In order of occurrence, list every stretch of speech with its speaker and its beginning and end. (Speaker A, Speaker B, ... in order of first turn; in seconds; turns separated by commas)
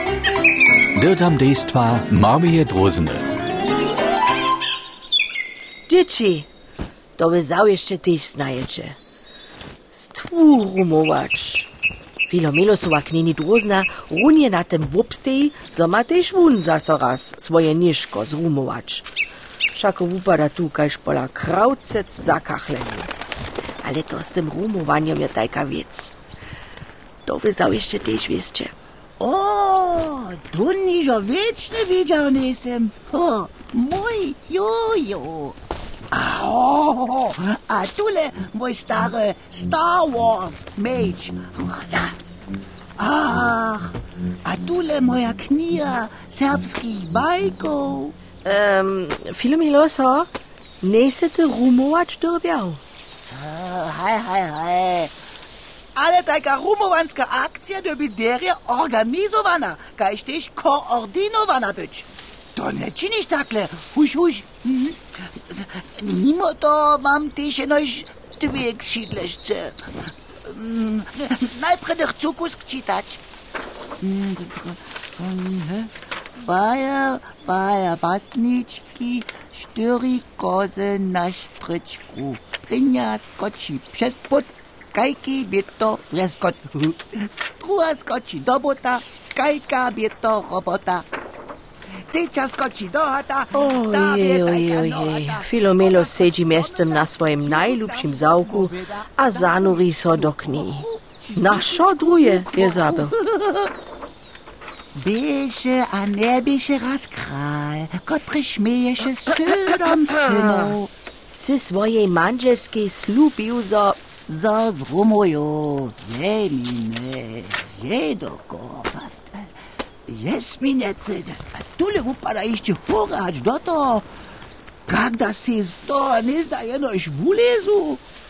Speaker A: 0.9-3.3, Speaker B: 5.9-6.5, Speaker B: 7.2-9.0, Speaker B: 9.9-11.7, Speaker B: 12.3-19.1, Speaker B: 19.7-23.1, Speaker B: 23.8-26.2, Speaker B: 27.2-28.8, Speaker C: 29.2-35.6, Speaker C: 36.1-42.2, Speaker C: 43.0-48.1, Speaker B: 48.4-50.3, Speaker B: 50.8-52.8, Speaker C: 53.3-55.1, Speaker C: 56.0-69.8, Speaker C: 70.4-73.2, Speaker C: 74.0-91.1, Speaker C: 92.1-103.7, Speaker B: 93.5-103.1, Speaker C: 105.0-110.9, Speaker B: 109.3-110.8, Speaker B: 111.3-114.0, Speaker C: 114.3-119.5, Speaker C: 120.1-124.1, Speaker C: 124.9-128.0